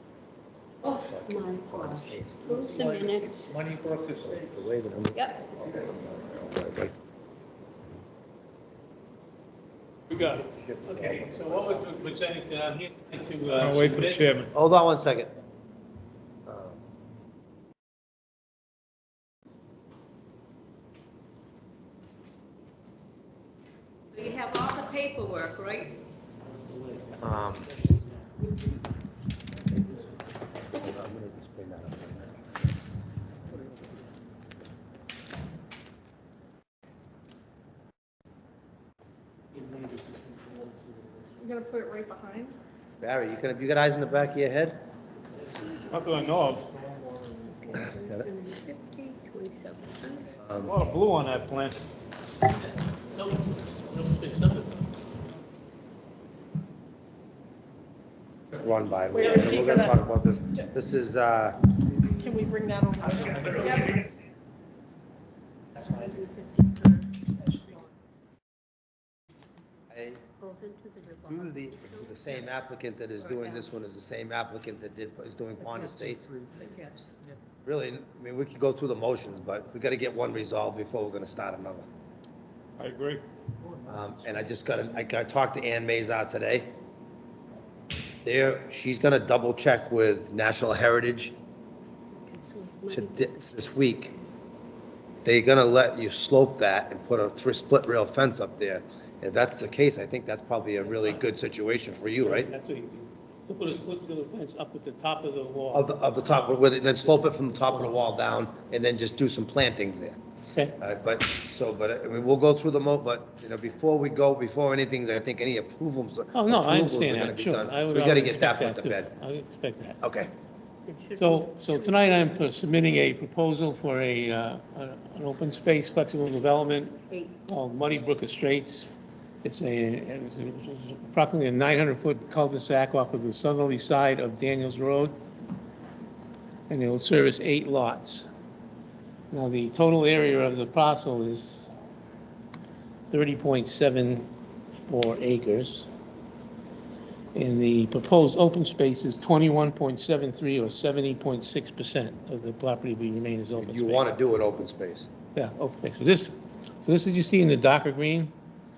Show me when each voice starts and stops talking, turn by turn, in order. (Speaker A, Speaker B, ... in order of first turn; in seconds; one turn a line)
Speaker A: 0.8-3.6
Speaker B: 1.0-2.6
Speaker C: 2.6-4.7
Speaker B: 4.2-7.0
Speaker A: 5.1-5.5
Speaker D: 10.1-10.4
Speaker B: 10.4-11.3
Speaker E: 10.8-14.3
Speaker D: 13.5-14.5
Speaker B: 14.5-15.3
Speaker B: 16.4-16.8
Speaker A: 24.1-25.9
Speaker E: 26.5-27.5
Speaker B: 27.2-27.7
Speaker B: 30.7-32.6
Speaker E: 39.5-41.5
Speaker F: 41.4-42.6
Speaker B: 43.0-44.8
Speaker D: 45.9-46.7
Speaker A: 46.0-46.3
Speaker A: 47.3-50.3
Speaker B: 47.7-48.3
Speaker B: 50.4-50.7
Speaker D: 50.6-51.8
Speaker E: 53.1-54.8
Speaker B: 58.6-61.6
Speaker F: 59.1-60.0
Speaker F: 62.2-64.0
Speaker A: 66.0-66.8
Speaker B: 69.9-70.2
Speaker A: 70.4-72.4
Speaker B: 71.3-76.3
Speaker A: 73.2-73.7
Speaker C: 75.7-76.5
Speaker A: 76.6-77.1
Speaker B: 77.6-81.8
Speaker D: 82.8-83.2
Speaker C: 83.6-84.6
Speaker B: 83.9-86.7
Speaker B: 88.2-91.3
Speaker A: 92.2-93.7
Speaker B: 92.9-94.1
Speaker B: 95.2-102.5
Speaker E: 100.8-101.2
Speaker E: 102.2-105.9
Speaker B: 105.7-110.2
Speaker B: 110.8-119.1
Speaker E: 116.3-120.0
Speaker B: 120.0-120.3
Speaker A: 120.9-122.4
Speaker E: 121.2-128.9
Speaker A: 127.1-127.3
Speaker E: 129.4-135.2
Speaker E: 136.7-138.3
Speaker E: 139.3-141.7
Speaker E: 143.1-144.3
Speaker E: 144.9-145.9
Speaker E: 147.3-154.2
Speaker B: 153.5-155.1
Speaker E: 155.3-158.3